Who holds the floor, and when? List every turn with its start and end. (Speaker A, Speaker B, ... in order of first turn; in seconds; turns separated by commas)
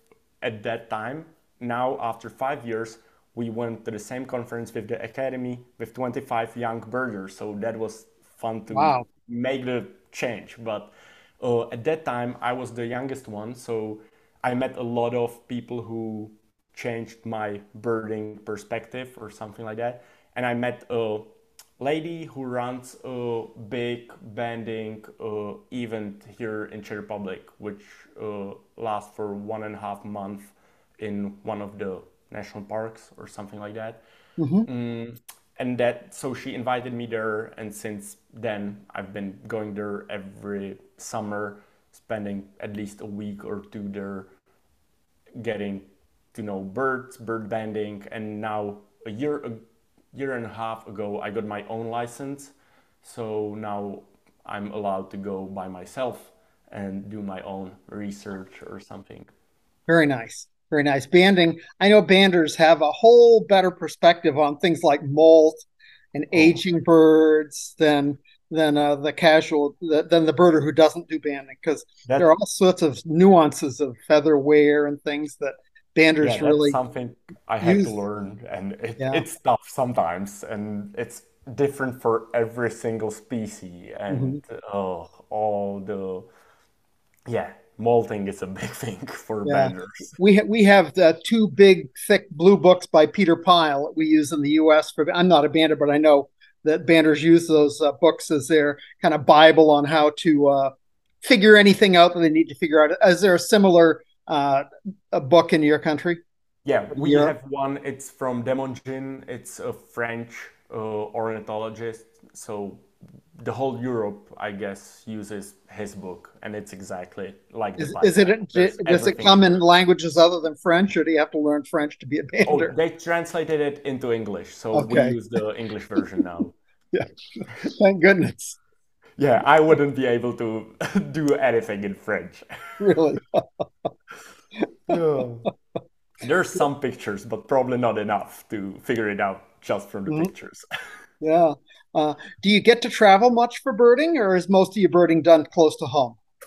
Speaker A: 0.4-34.0, Speaker B: 8.7-9.1, Speaker B: 34.4-34.7, Speaker A: 34.6-44.3, Speaker A: 45.3-49.6, Speaker A: 50.1-59.3, Speaker B: 59.9-76.8, Speaker A: 66.3-66.6, Speaker A: 76.2-86.3, Speaker B: 77.6-78.0, Speaker B: 79.0-79.2, Speaker B: 84.1-84.4, Speaker A: 87.3-90.2, Speaker B: 89.5-106.2, Speaker A: 106.6-112.8, Speaker B: 106.9-107.3, Speaker A: 113.3-119.6, Speaker B: 117.8-122.7, Speaker A: 122.4-126.5, Speaker B: 124.7-125.2, Speaker B: 126.9-128.6, Speaker A: 129.2-132.4, Speaker B: 132.8-133.9, Speaker A: 134.9-135.5, Speaker A: 136.2-140.7, Speaker B: 141.2-146.2